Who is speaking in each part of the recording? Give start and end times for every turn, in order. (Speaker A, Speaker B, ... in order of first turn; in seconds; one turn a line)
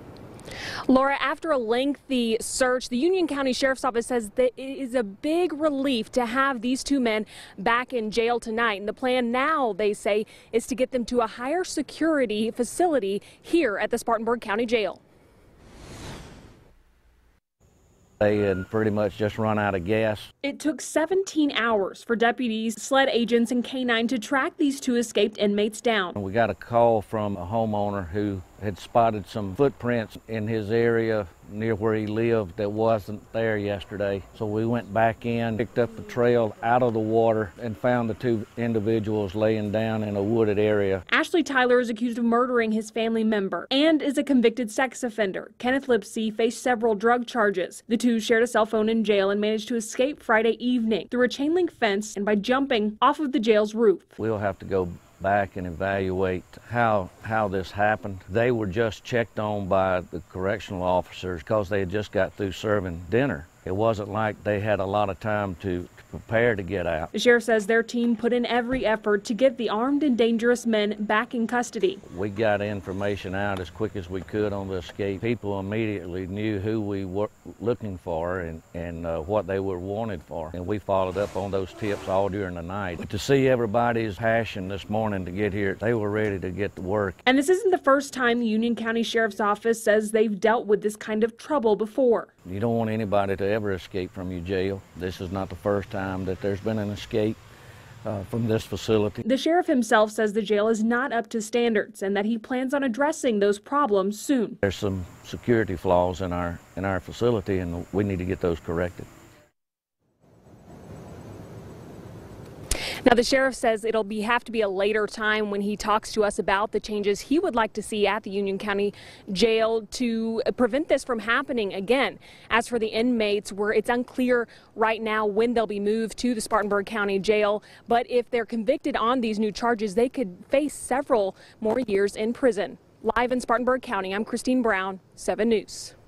Speaker A: 0.9-15.0
Speaker B: 18.2-20.3
Speaker A: 20.4-26.2
Speaker B: 26.2-41.0
Speaker A: 41.1-54.2
Speaker B: 54.2-67.1
Speaker A: 67.1-72.0
Speaker B: 72.0-87.2
Speaker A: 87.2-92.3
Speaker B: 92.4-97.4
Speaker B: 98.0-99.2
Speaker A: 99.2-104.6
Speaker B: 104.6-109.1
Speaker A: 113.0-135.9